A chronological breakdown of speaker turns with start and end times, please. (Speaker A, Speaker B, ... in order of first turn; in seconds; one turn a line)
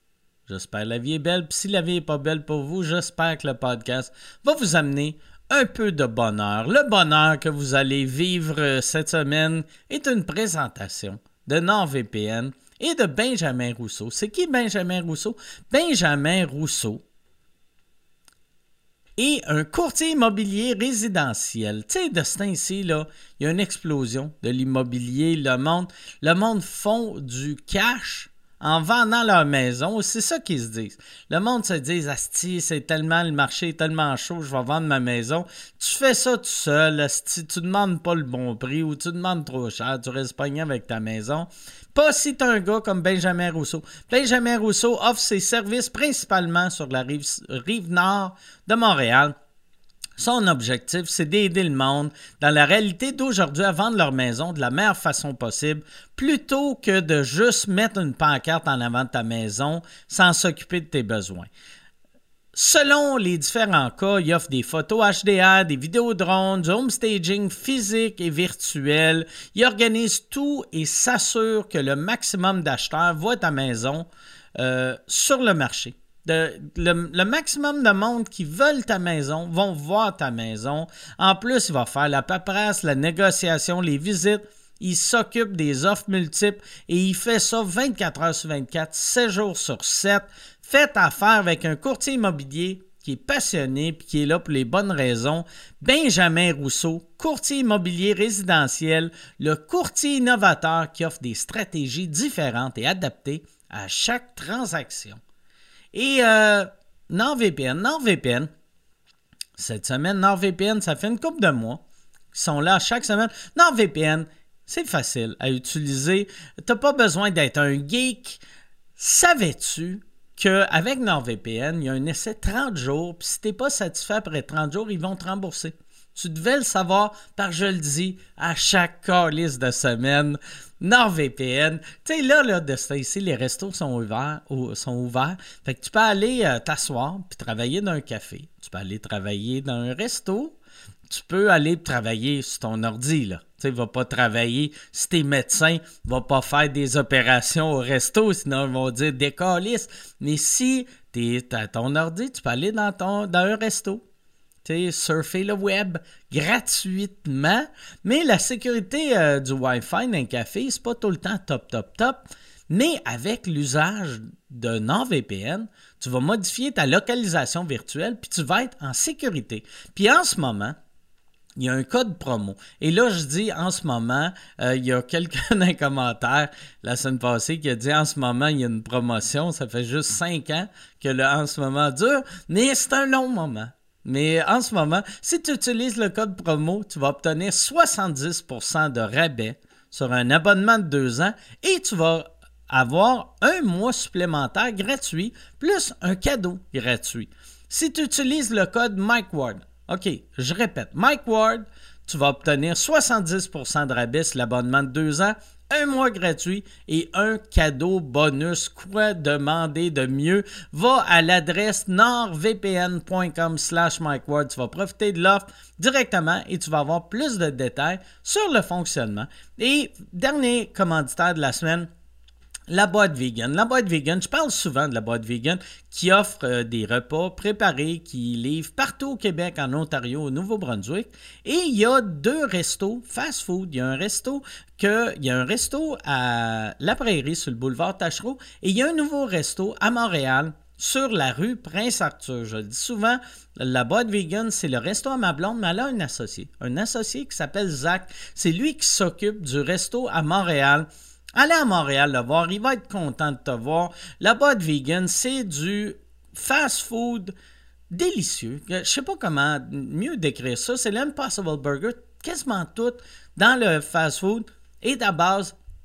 Speaker A: 0.5-17.0
Speaker A: 19.2-49.3
Speaker A: 50.2-61.5
Speaker A: 62.5-105.2
Speaker A: 105.9-108.5
Speaker A: 109.6-111.8
Speaker A: 112.3-118.4
Speaker A: 119.0-140.6
Speaker A: 141.1-154.0
Speaker A: 154.6-170.8
Speaker A: 171.6-221.9
Speaker A: 222.7-257.3
Speaker A: 257.9-265.6